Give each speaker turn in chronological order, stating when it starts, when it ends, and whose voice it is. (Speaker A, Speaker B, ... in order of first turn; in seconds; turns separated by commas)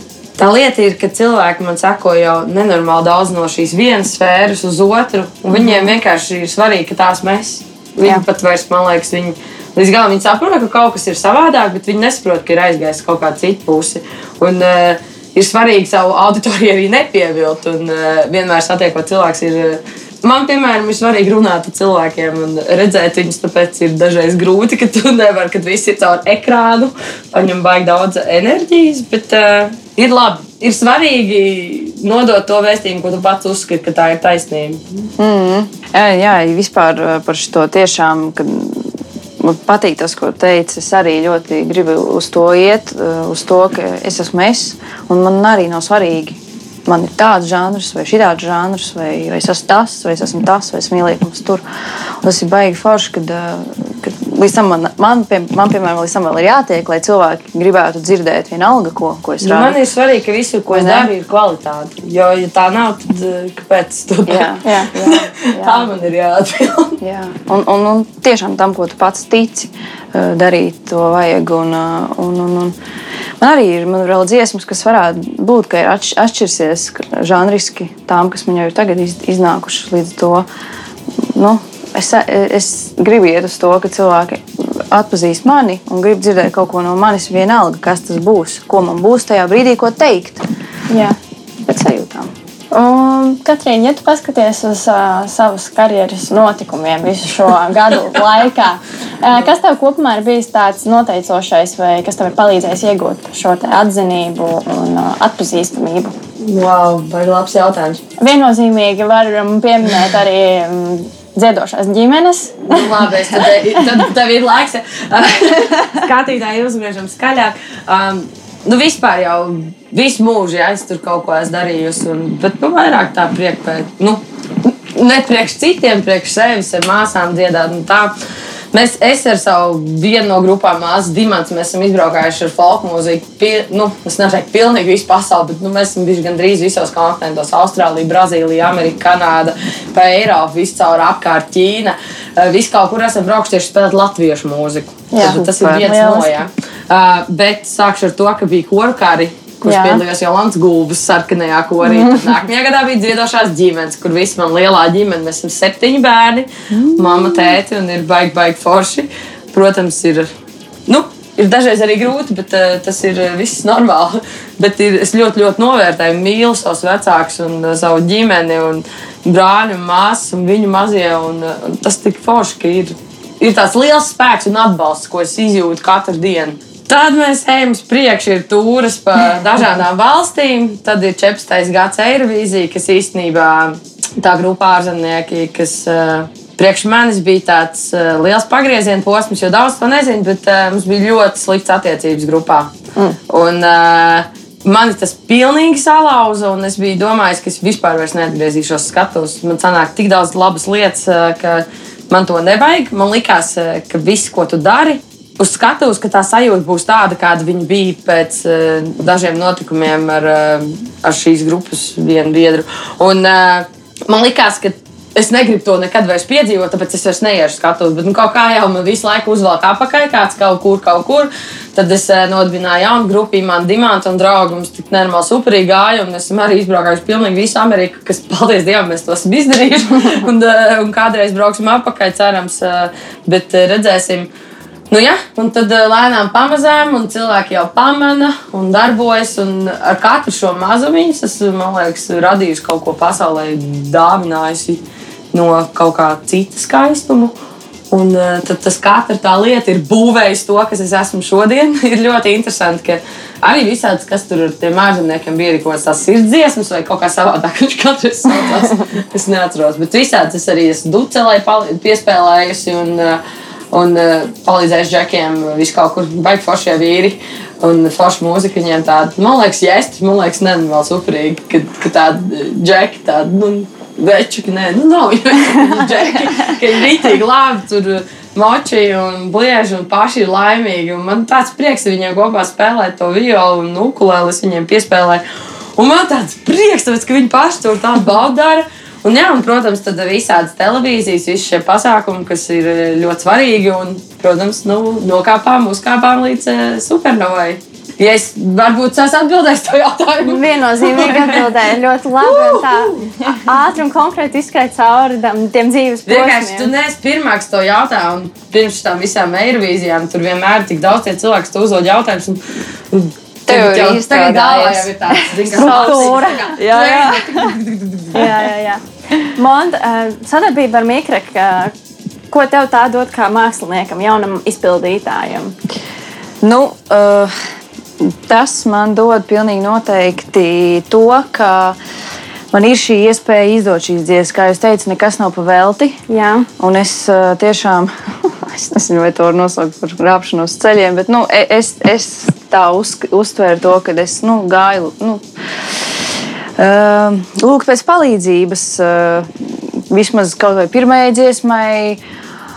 Speaker A: 0.4-34.8, Speaker B: 5.6-5.8, Speaker B: 35.2-51.6, Speaker B: 52.2-59.8, Speaker A: 59.4-67.0, Speaker B: 60.7-61.1, Speaker B: 64.3-65.9, Speaker C: 64.6-64.9, Speaker B: 67.0-72.8, Speaker B: 73.4-80.5, Speaker B: 81.2-90.4, Speaker C: 90.9-91.2, Speaker B: 91.7-92.3, Speaker C: 92.7-106.1, Speaker A: 106.4-108.0, Speaker C: 108.2-113.0, Speaker A: 112.7-128.1, Speaker A: 128.7-160.3, Speaker C: 145.1-146.3, Speaker B: 145.2-145.9, Speaker C: 149.6-150.0, Speaker C: 151.8-152.3, Speaker B: 156.7-157.6, Speaker A: 160.9-192.7, Speaker A: 193.3-234.3, Speaker A: 234.9-247.3, Speaker A: 247.9-263.2, Speaker A: 263.7-285.2, Speaker A: 285.8-301.5, Speaker C: 300.2-306.7, Speaker A: 302.2-303.1, Speaker A: 306.1-312.4, Speaker A: 312.9-318.3, Speaker B: 313.5-317.6, Speaker C: 315.6-316.6, Speaker C: 318.1-321.7, Speaker C: 322.3-325.5, Speaker B: 326.4-327.3, Speaker B: 328.0-331.8, Speaker B: 332.5-336.0, Speaker C: 336.1-336.5, Speaker B: 336.6-345.9, Speaker B: 346.6-352.0